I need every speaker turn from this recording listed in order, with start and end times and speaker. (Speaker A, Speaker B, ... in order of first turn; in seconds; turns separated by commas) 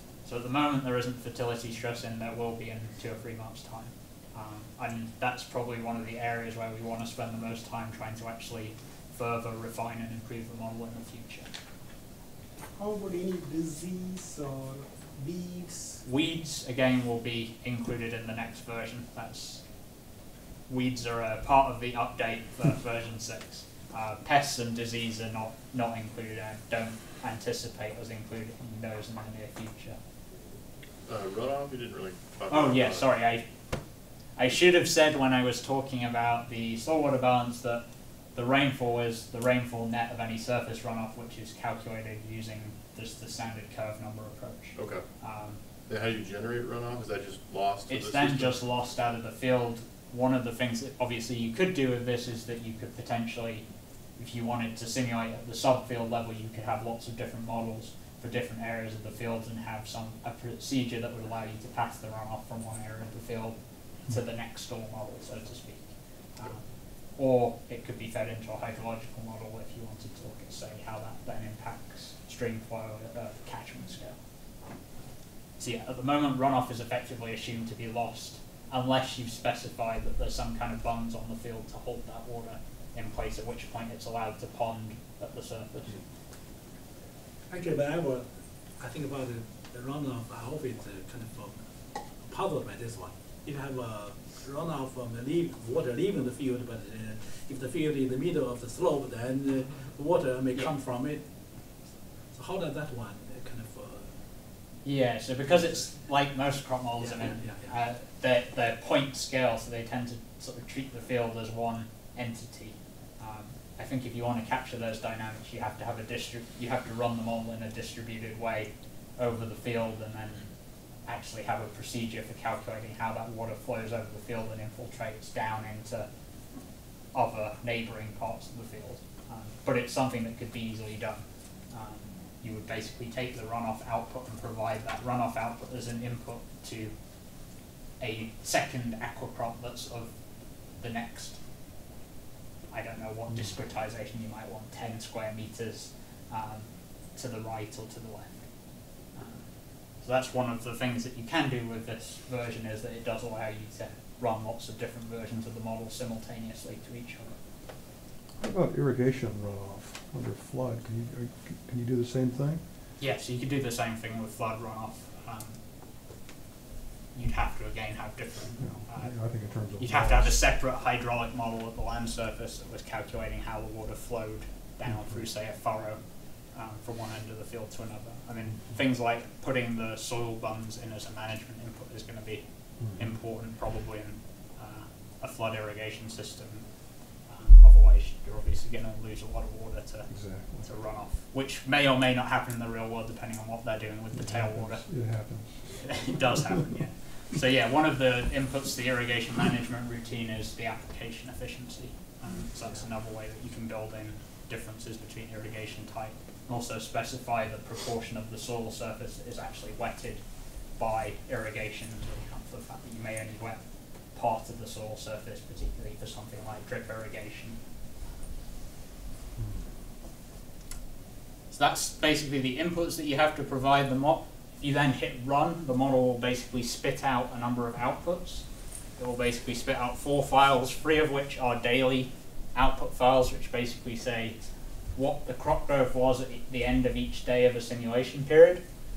Speaker A: 0.2-11.5, Speaker B: 12.7-16.0, Speaker A: 16.0-19.6, Speaker A: 20.7-30.0, Speaker C: 31.1-33.0, Speaker A: 32.5-33.4, Speaker A: 34.4-45.6, Speaker C: 44.8-45.0, Speaker C: 45.9-48.6, Speaker A: 47.9-53.6, Speaker A: 54.2-66.6, Speaker A: 67.2-74.2, Speaker A: 75.6-86.0, Speaker D: 87.5-101.8, Speaker D: 102.3-104.2, Speaker A: 104.8-120.5, Speaker D: 105.5-106.0, Speaker D: 107.0-107.8, Speaker A: 121.0-126.1, Speaker A: 127.1-136.9, Speaker A: 138.0-140.1, Speaker A: 140.8-141.4, Speaker A: 142.7-148.4, Speaker A: 149.1-149.5, Speaker A: 150.0-157.4, Speaker E: 158.4-162.6, Speaker A: 163.0-165.6, Speaker A: 167.1-176.0, Speaker E: 168.6-170.4, Speaker E: 174.9-175.2, Speaker A: 176.5-182.4, Speaker E: 182.8-183.1, Speaker A: 182.9-186.6, Speaker A: 187.3-194.8, Speaker E: 190.1-190.7, Speaker E: 194.1-196.7, Speaker A: 195.8-210.2, Speaker A: 210.8-217.6, Speaker E: 219.4-219.6, Speaker A: 221.5-228.4, Speaker A: 229.0-234.4, Speaker A: 234.9-238.6